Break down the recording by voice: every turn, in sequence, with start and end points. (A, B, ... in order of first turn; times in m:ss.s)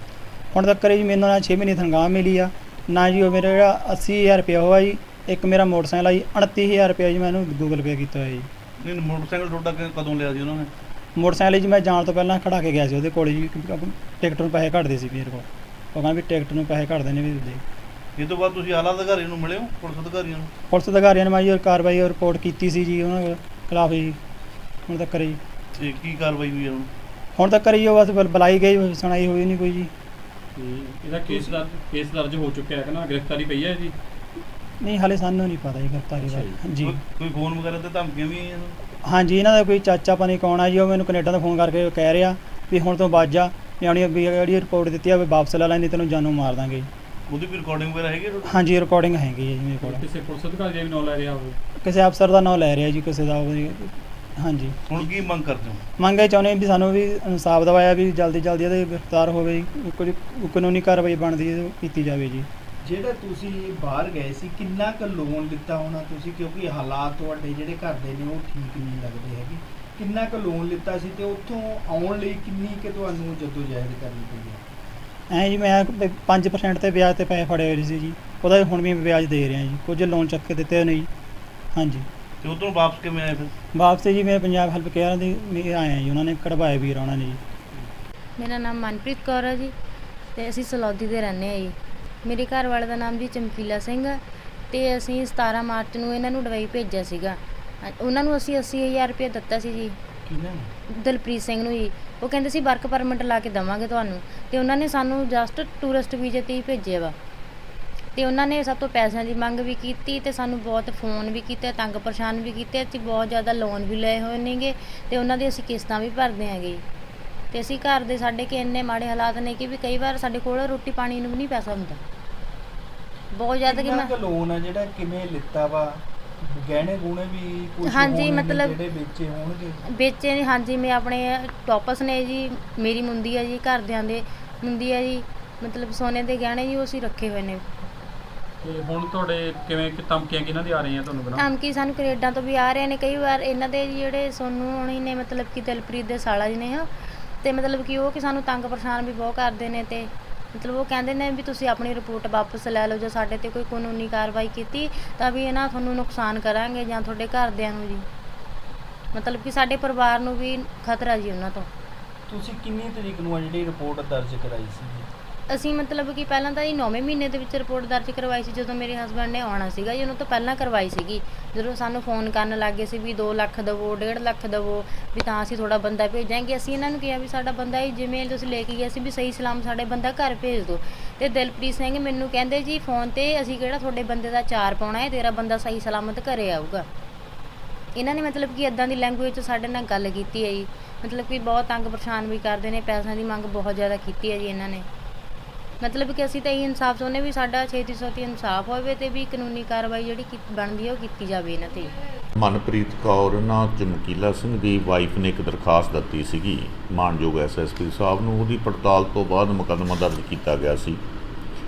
0:00.5-0:08.5 A
0:08.8-0:10.7 B
0:11.2-0:17.6 A
0:18.2-0:20.5 B
0:20.7-0:24.2 A
0:24.9-0:25.4 A
0:25.8-0:26.9 B
0:27.4-0:29.9 A
0:30.6-0:33.9 C
0:34.8-0:37.0 A
0:36.3-0:36.5 C
0:36.8-0:38.7 B
0:39.0-0:46.9 A
0:47.3-0:48.6 B
0:48.4-0:50.0 A
0:49.8-0:51.6 C
0:51.8-0:54.8 A
0:54.9-0:55.8 B
0:56.0-1:02.5 A
1:02.8-1:14.6 D
1:15.3-1:21.1 A
1:21.7-1:22.0 A
1:22.4-1:23.5 B
1:23.7-1:27.4 A
1:28.4-1:29.7 E
1:30.4-1:39.9 E
1:40.3-1:40.7 D
1:41.0-1:47.1 E
1:48.2-1:56.8 E
1:57.5-2:02.0 E
2:03.3-2:04.1 E
2:03.6-2:09.8 D
2:07.8-2:08.7 E
2:09.9-2:17.6 E
2:18.6-2:21.4 C
2:21.3-2:26.9 E
2:27.4-2:38.0 E
2:39.1-2:41.7 E
2:42.3-2:45.1 D
2:45.5-3:06.9 E
3:08.0-3:14.8 E
3:15.8-3:21.9 E
3:22.4-3:31.0 F